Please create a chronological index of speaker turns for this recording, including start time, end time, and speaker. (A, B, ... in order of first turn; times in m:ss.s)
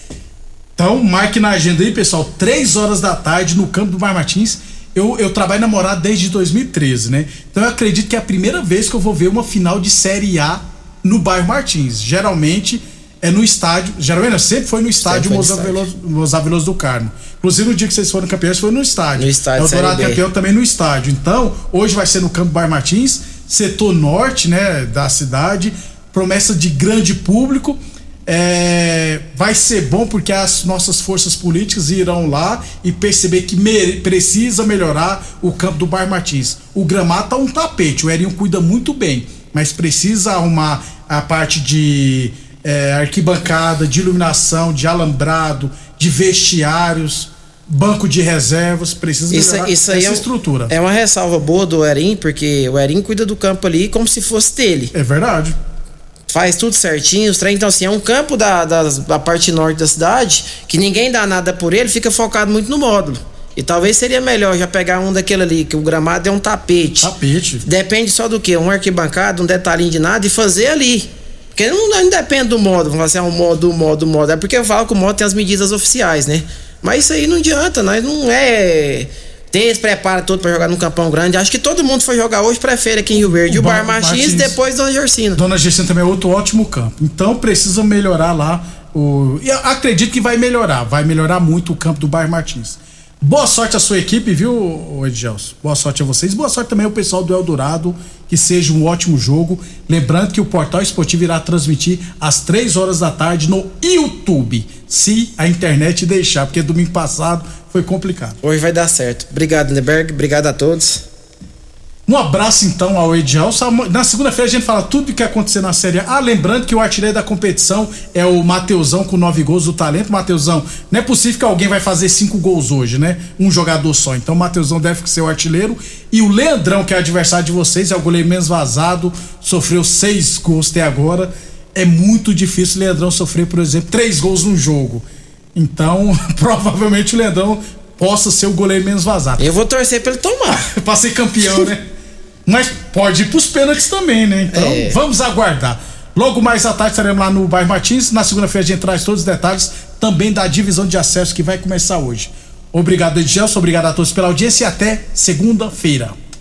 0:00.8-0:50.7 A
0:15.0-0:15.8 B
0:19.2-0:20.2 B
0:49.3-0:54.9 B
0:54.9-0:55.6 A
0:56.3-1:07.1 B
1:07.0-1:07.6 A
1:07.6-1:25.4 B
1:23.5-1:24.6 A
1:25.4-1:48.4 A
1:48.4-1:51.0 B
1:52.1-2:19.5 A
2:19.4-2:20.7 B
2:20.7-2:21.8 A
2:22.4-2:36.1 A
2:24.5-2:25.0 B